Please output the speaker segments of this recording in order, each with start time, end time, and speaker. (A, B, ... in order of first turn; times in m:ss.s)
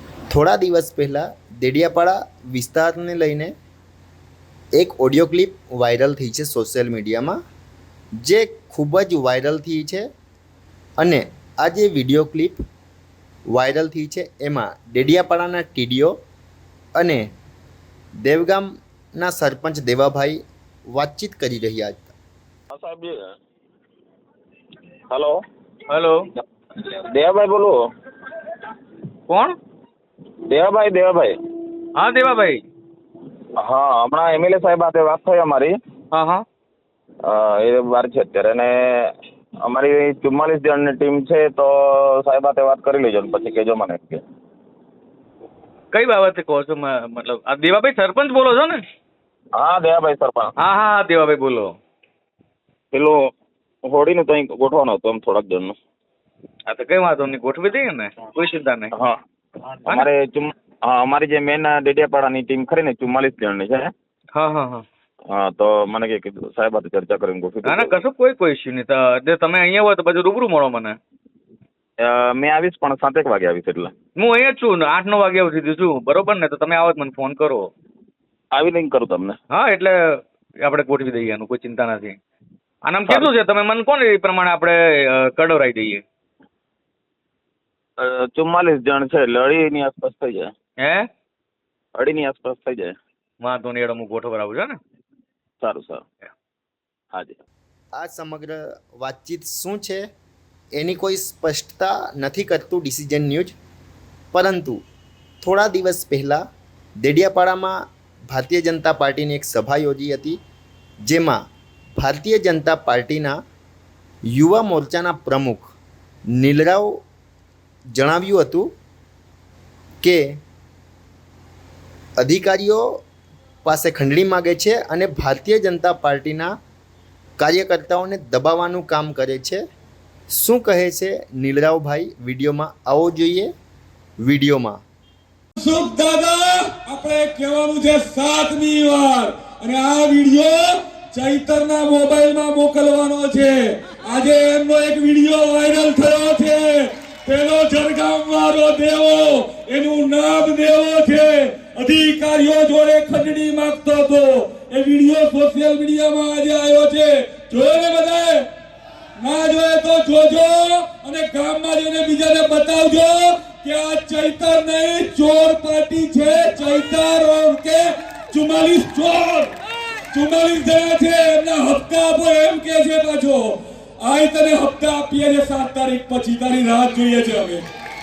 0:00.3-0:03.5 A
0:04.8-0:07.4 A
0:08.2-0:10.1 A
0:11.0-0:12.6 A
0:13.5-0:16.2 A
0:17.0-0:17.3 A
0:18.2-0:22.1 A
0:22.7-0:23.2 B
0:25.1-0:25.4 B
0:25.9-0:26.2 C
0:26.8-0:27.8 B
0:29.3-0:29.5 C
0:30.5-0:31.3 B
0:32.0-0:32.6 C
0:33.6-0:35.7 B
0:36.1-0:36.4 C
0:37.2-0:39.1 B
0:39.6-0:44.2 B
0:45.9-0:48.8 C
0:49.6-0:50.5 B
0:50.6-0:51.7 C
0:52.9-0:53.2 B
0:53.8-0:55.7 B
0:56.7-0:58.9 C
0:59.8-1:03.9 B
1:04.3-1:04.8 C
1:05.3-1:08.0 B
1:07.6-1:11.0 C
1:12.0-1:13.9 B
1:14.2-1:17.7 C
1:18.5-1:19.4 B
1:19.5-1:22.2 C
1:22.8-1:26.0 C
1:23.0-1:23.3 B
1:28.0-1:30.5 B
1:30.8-1:31.1 C
1:32.0-1:32.9 B
1:33.4-1:34.8 C
1:35.6-1:36.0 B
1:37.1-1:37.4 B
1:38.0-1:40.0 A
1:40.8-1:43.6 A
1:44.3-1:44.8 A
1:45.4-1:46.4 A
1:47.0-1:50.4 A
1:51.0-1:51.4 A
1:52.0-1:53.4 A
1:54.3-1:55.7 A
1:56.3-1:57.0 A
1:57.9-1:58.7 A
2:00.0-2:00.4 A
2:02.2-2:02.8 A
2:03.6-2:06.5 A
2:07.4-2:09.6 A
2:10.3-2:13.5 A
2:14.2-2:14.8 A
2:15.6-2:38.4 D
2:39.2-2:49.5 D
2:50.1-2:57.6 D